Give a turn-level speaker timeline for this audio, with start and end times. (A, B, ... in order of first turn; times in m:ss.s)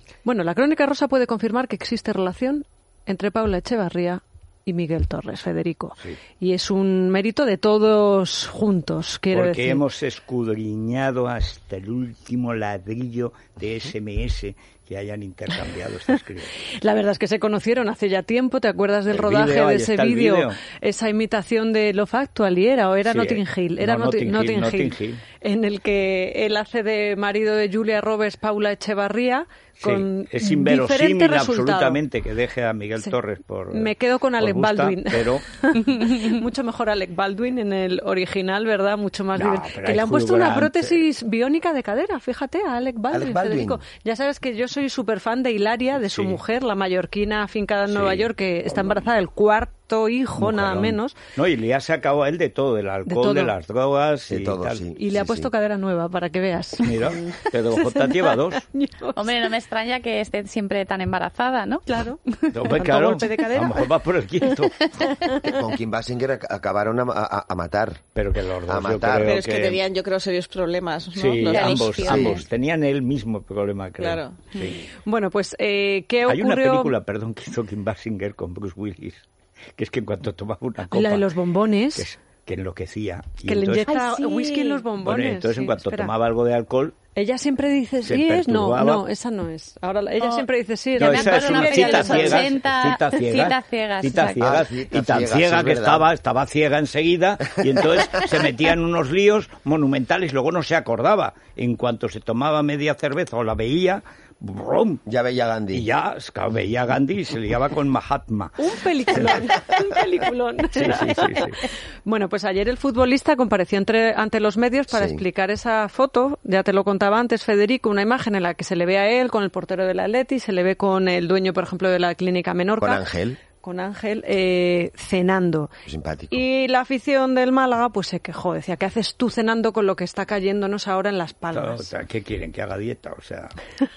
0:00.2-0:09.8 A
0:09.3-0:16.6 B
0:16.7-0:32.0 A
0:19.1-0:20.6 B
0:23.1-0:25.2 B
0:29.8-0:35.5 B
0:33.7-0:51.2 A
0:39.4-0:41.0 B
0:43.1-0:43.8 C
0:46.0-0:46.4 B
0:47.9-0:48.3 B
0:50.4-0:54.8 B
0:53.1-0:53.5 A
0:54.3-0:55.5 C
0:55.0-0:59.3 A
0:56.8-0:58.7 B
0:59.2-1:02.6 D
1:01.9-1:03.9 A
1:02.5-1:04.8 B
1:05.2-1:05.5 A
1:05.4-1:08.0 C
1:08.2-1:09.8 B
1:08.7-1:09.4 C
1:09.2-1:12.2 E
1:11.2-1:14.9 B
1:11.5-1:12.4 D
1:12.1-1:12.4 C
1:14.0-1:14.4 E
1:15.0-1:16.9 A
1:16.3-1:19.2 B
1:19.8-1:21.3 B
1:20.9-1:22.1 A
1:22.0-1:23.9 B
1:23.4-1:26.1 A
1:23.9-1:24.8 D
1:25.0-1:27.0 B
1:27.2-1:32.5 A
1:28.0-1:29.0 B
1:31.0-1:34.6 D
1:31.0-1:45.0 B
1:34.4-1:36.1 C
1:45.1-1:45.9 C
1:45.7-1:49.5 B
1:48.6-2:03.1 A
1:50.8-1:51.6 B
1:54.9-1:55.2 C
2:02.8-2:03.4 C
2:03.6-2:05.7 A
2:05.9-2:06.4 C
2:06.3-2:11.9 A
2:11.5-2:13.6 B